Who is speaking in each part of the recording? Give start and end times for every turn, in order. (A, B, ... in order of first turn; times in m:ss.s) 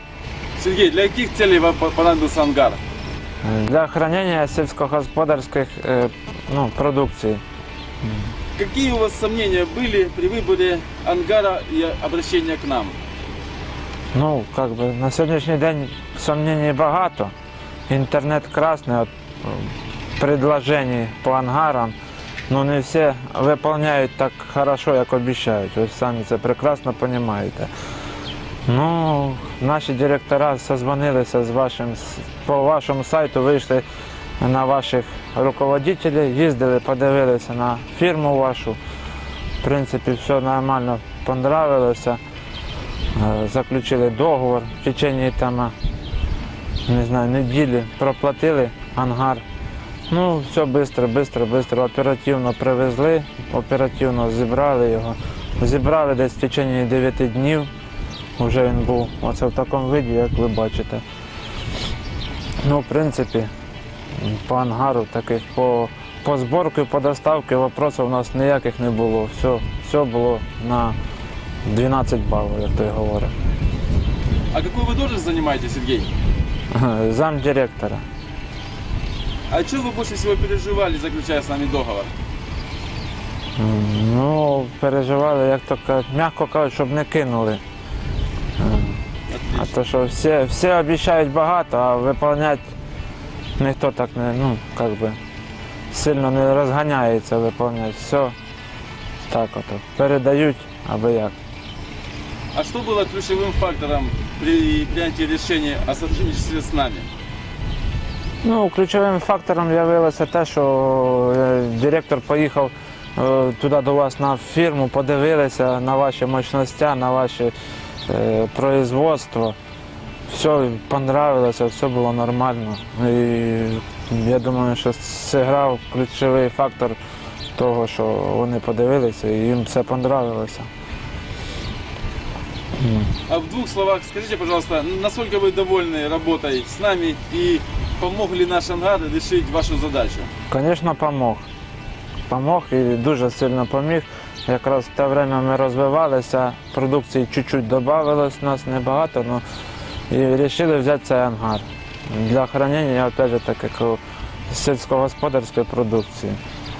0:00.6-0:02.8 A
0:03.4-0:07.4 B
0:08.0-0:08.3 B
0:08.6-0:13.0 A
0:14.1-0:17.3 B
0:17.9-0:22.0 B
0:22.5-0:27.7 B
0:28.7-0:33.8 B
0:34.4-0:38.8 B
0:39.6-0:42.2 B
0:43.1-0:45.8 B
0:46.9-0:49.4 B
0:50.1-0:57.7 B
0:58.4-1:01.0 B
1:02.6-1:03.5 B
1:04.1-1:11.0 B
1:11.6-1:13.3 B
1:14.5-1:16.1 A
1:16.7-1:18.0 B
1:19.5-1:22.1 A
1:23.6-1:27.6 B
1:28.6-1:29.0 B
1:29.3-1:29.8 A
1:29.6-1:32.7 B
1:33.6-1:35.2 B
1:35.9-1:38.4 B
1:39.3-1:41.4 B
1:42.5-1:47.1 A
1:48.4-1:57.5 B
1:58.1-1:59.6 B
2:00.3-2:07.0 B
2:07.6-2:10.7 B
2:12.8-2:13.1 B
2:13.3-2:20.3 A
2:20.5-2:21.5 B
2:22.3-2:29.4 B
2:30.1-2:36.4 B